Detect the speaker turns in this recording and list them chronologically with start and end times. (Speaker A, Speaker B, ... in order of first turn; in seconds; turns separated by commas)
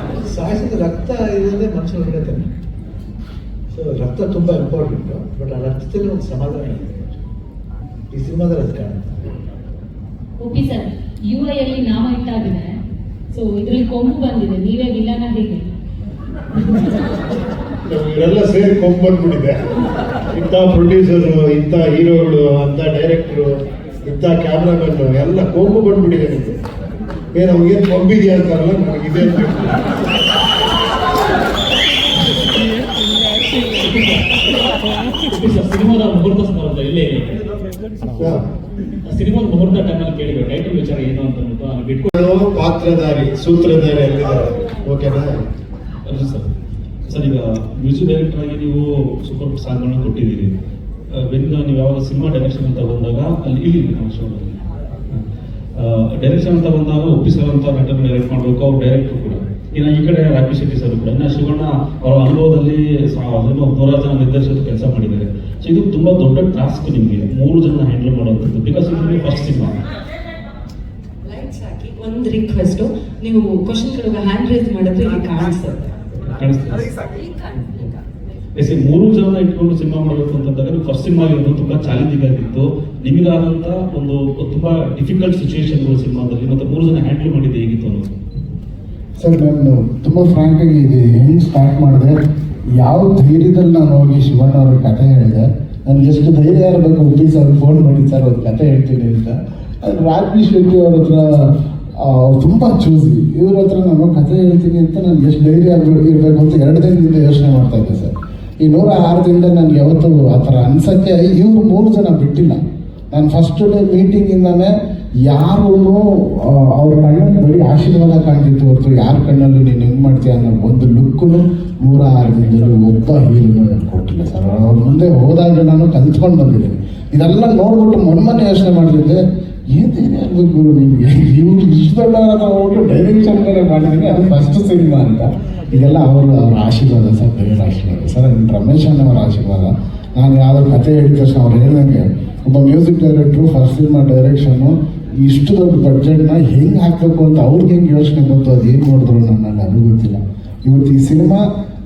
Speaker A: 0.2-2.5, Speaker A: 3.7-7.2, Speaker A: 8.1-9.2, Speaker B: 10.4-12.7, Speaker B: 13.3-15.7, Speaker C: 17.9-19.6, Speaker C: 20.3-23.5, Speaker C: 24.0-26.6, Speaker C: 27.3-29.9, Speaker D: 33.8-34.3, Speaker D: 35.3-37.4, Speaker C: 38.2-38.4, Speaker D: 39.0-42.1, Speaker C: 42.1-45.4, Speaker E: 46.0-46.5, Speaker E: 47.1-50.5, Speaker E: 51.1-54.6, Speaker E: 55.8-69.8, Speaker F: 71.2-75.9, Speaker E: 76.2-76.9, Speaker E: 77.5-77.9, Speaker E: 78.6-88.1, Speaker G: 89.2-92.2, Speaker G: 92.8-112.6, Speaker G: 113.1-114.7, Speaker G: 115.3-129.2, Speaker G: 129.7-151.5